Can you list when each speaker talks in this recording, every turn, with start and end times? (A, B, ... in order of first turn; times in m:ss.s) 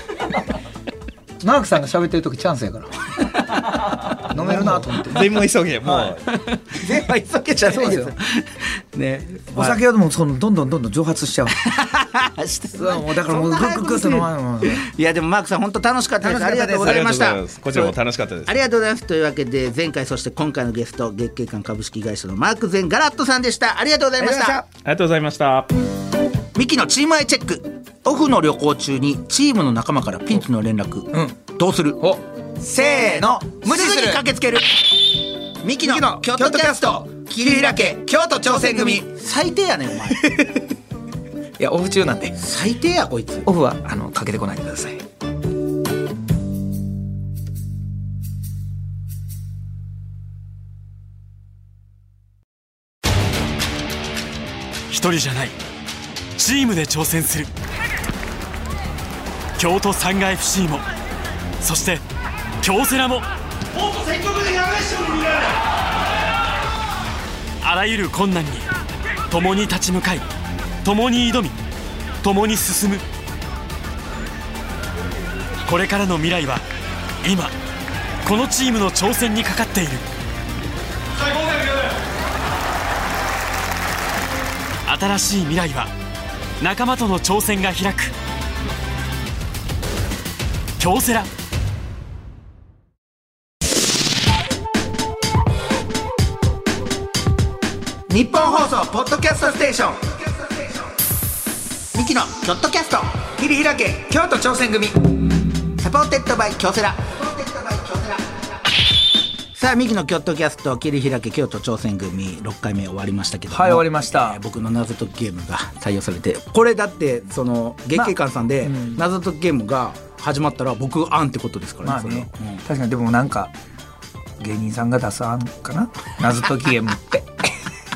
0:01.4-0:05.2 A
0:03.6-0:05.3 B
0:05.0-0:06.3 C
0:06.0-0:09.8 B
0:07.7-0:08.1 A
0:09.5-0:11.6 A
0:11.6-0:17.9 B
0:12.8-0:14.8 A
0:16.2-0:17.1 A
0:16.8-0:18.6 C
0:18.4-0:24.6 B
0:24.2-0:24.6 A
0:24.8-0:25.7 C
0:26.5-0:32.1 B
0:31.1-0:31.4 A
0:32.0-0:34.2 A
0:32.6-0:34.9 B
0:35.6-0:40.2 B
0:35.8-0:39.1 A
0:40.1-0:40.6 A
0:41.6-0:42.4 A
0:42.4-0:43.5 B
0:43.4-0:45.0 A
0:54.9-0:55.6 D
0:56.4-0:57.5 D
0:59.6-1:00.8 D
1:01.6-1:02.0 D
1:02.6-1:05.6 D
1:07.6-1:08.7 D
1:09.3-1:10.3 D
1:10.8-1:11.6 D
1:12.2-1:13.0 D
1:15.6-1:16.6 D
1:17.2-1:17.5 D
1:18.2-1:20.1 D
1:21.2-1:21.9 D
1:24.8-1:25.9 D
1:26.6-1:28.1 D
1:30.8-1:31.3 D
1:38.1-1:40.8 B
1:41.9-1:44.0 B
1:43.9-1:45.0 A
1:45.8-1:48.4 B
1:49.5-2:02.6 B
1:53.5-1:54.4 A
1:57.9-1:59.0 A
2:01.8-2:03.5 A
2:04.4-2:07.6 A